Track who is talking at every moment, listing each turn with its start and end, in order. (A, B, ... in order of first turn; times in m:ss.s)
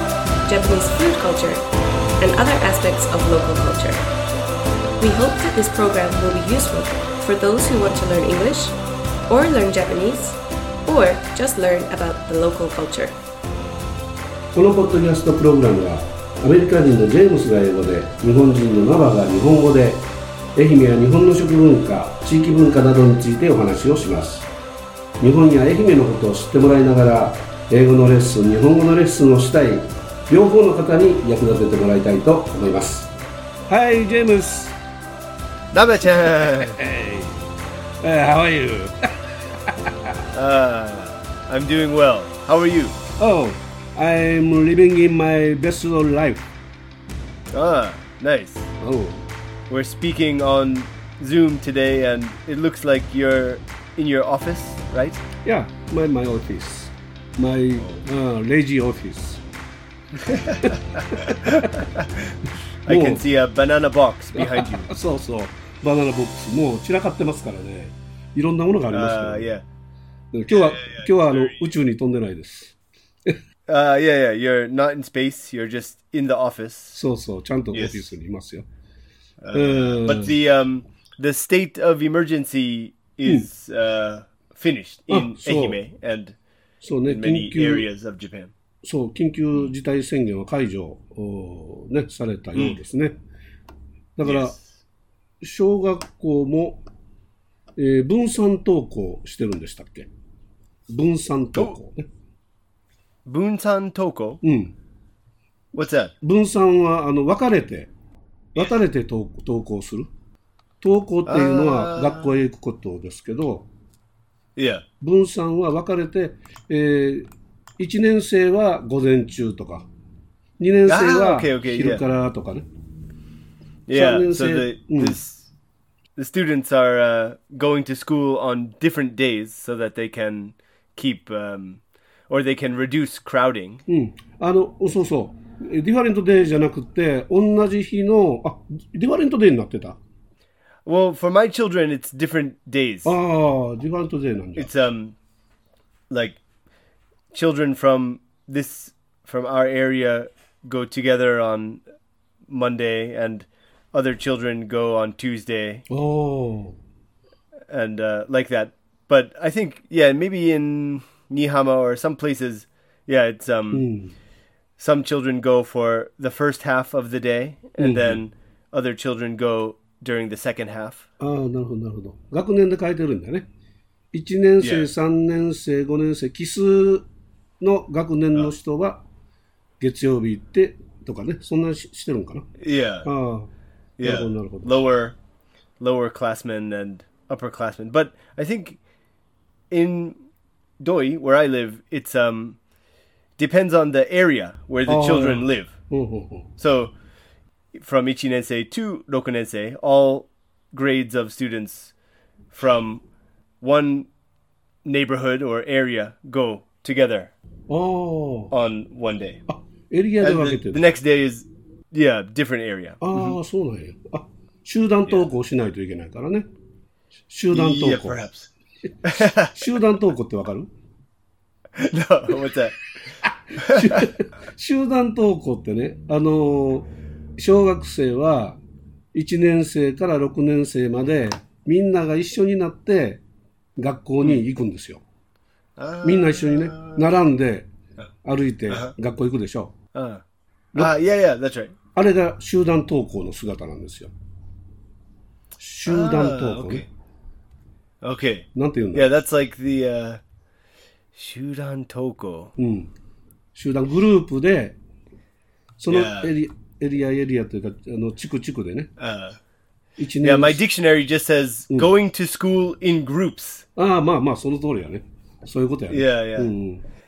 0:00.5-0:01.6 A
0:02.2-0:04.0 A
0:05.0-0:08.7 A
0:09.3-0:13.2 A
0:14.5-0:24.5 B
0:25.2-0:33.1 B
0:33.7-0:34.8 B
0:35.7-0:36.8 C
0:36.1-0:37.5 B
0:38.0-0:40.2 B
0:40.3-0:43.0 C
0:43.2-0:46.4 B
0:47.5-0:48.7 C
0:48.8-0:49.3 B
0:49.7-0:55.2 C
0:55.4-0:59.4 B
1:00.2-1:02.3 C
1:00.6-1:01.8 B
1:02.8-1:04.9 C
1:02.9-1:03.2 B
1:04.3-1:09.5 B
1:08.9-1:09.6 C
1:10.3-1:13.4 B
1:10.5-1:11.7 C
1:13.7-1:17.0 C
1:16.9-1:18.7 B
1:17.7-1:18.1 C
1:19.4-1:26.3 C
1:19.5-1:20.4 B
1:25.1-1:25.8 B
1:26.8-1:27.9 B
1:27.0-1:28.5 C
1:28.8-1:33.2 B
1:34.2-1:34.6 B
1:34.2-1:34.6 C
1:35.4-1:36.8 B
1:37.8-1:40.1 B
1:40.9-1:42.1 B
1:43.2-1:44.4 C
1:44.4-1:44.7 B
1:45.7-1:46.1 C
1:46.2-1:47.9 B
1:48.5-1:50.1 B
1:50.8-1:53.7 B
1:51.2-1:52.4 C
1:54.6-1:54.8 C
1:55.0-1:59.9 B
2:00.6-2:02.6 B
2:00.8-2:02.0 C
2:03.9-2:05.5 C
2:03.9-2:05.2 B
2:06.2-2:13.8 C
2:13.9-2:20.0 B
2:20.8-2:23.2 C
2:23.0-2:24.7 B
2:24.6-2:25.2 C
2:26.1-2:26.4 C
2:27.3-2:31.8 C
2:32.5-2:35.8 C
2:35.9-2:36.8 B
2:37.7-2:43.9 C
2:43.7-2:44.1 B
2:44.8-2:51.1 C
2:47.8-2:48.2 B
2:51.2-2:53.4 B
2:54.1-2:57.0 B
2:54.6-2:54.9 C
2:57.6-2:59.0 B
2:59.8-3:02.5 B
3:02.6-3:03.1 C
3:03.0-3:03.5 B
3:04.0-3:05.2 C
3:04.0-3:04.8 B
3:05.8-3:08.8 C
3:09.7-3:10.2 C
3:10.8-3:12.6 C
3:13.4-3:15.7 C
3:14.9-3:16.5 B
3:16.6-3:16.9 C
3:17.7-3:21.9 C
3:22.5-3:23.0 C
3:23.6-3:24.1 C
3:24.8-3:27.3 C
3:27.7-3:28.5 B
3:28.5-3:29.4 C
3:29.5-3:30.8 B
3:30.2-3:33.4 C
3:33.0-3:36.5 B
3:37.3-3:38.2 B
3:37.5-3:38.5 C
3:39.0-3:39.6 C
3:39.1-3:40.7 B
3:41.8-3:42.8 C
3:43.2-3:48.6 B
3:43.6-3:44.1 C
3:49.1-3:53.2 B
3:53.8-3:55.0 B
3:55.8-3:57.1 C
3:56.0-3:57.7 B
3:58.2-3:59.7 B
3:59.9-4:00.2 C
4:00.7-4:01.0 B
4:00.8-4:01.7 C
4:01.9-4:04.1 B
4:05.6-4:06.9 B
4:05.8-4:06.9 C
4:08.0-4:10.2 C
4:08.5-4:09.2 B
4:11.1-4:12.5 C
4:12.6-4:12.9 B
4:13.5-4:14.8 B
4:15.8-4:18.9 B
4:15.9-4:16.3 C
4:19.0-4:19.4 C
4:20.0-4:20.6 B
4:20.2-4:23.6 C
4:23.8-4:26.8 B
4:25.9-4:26.5 C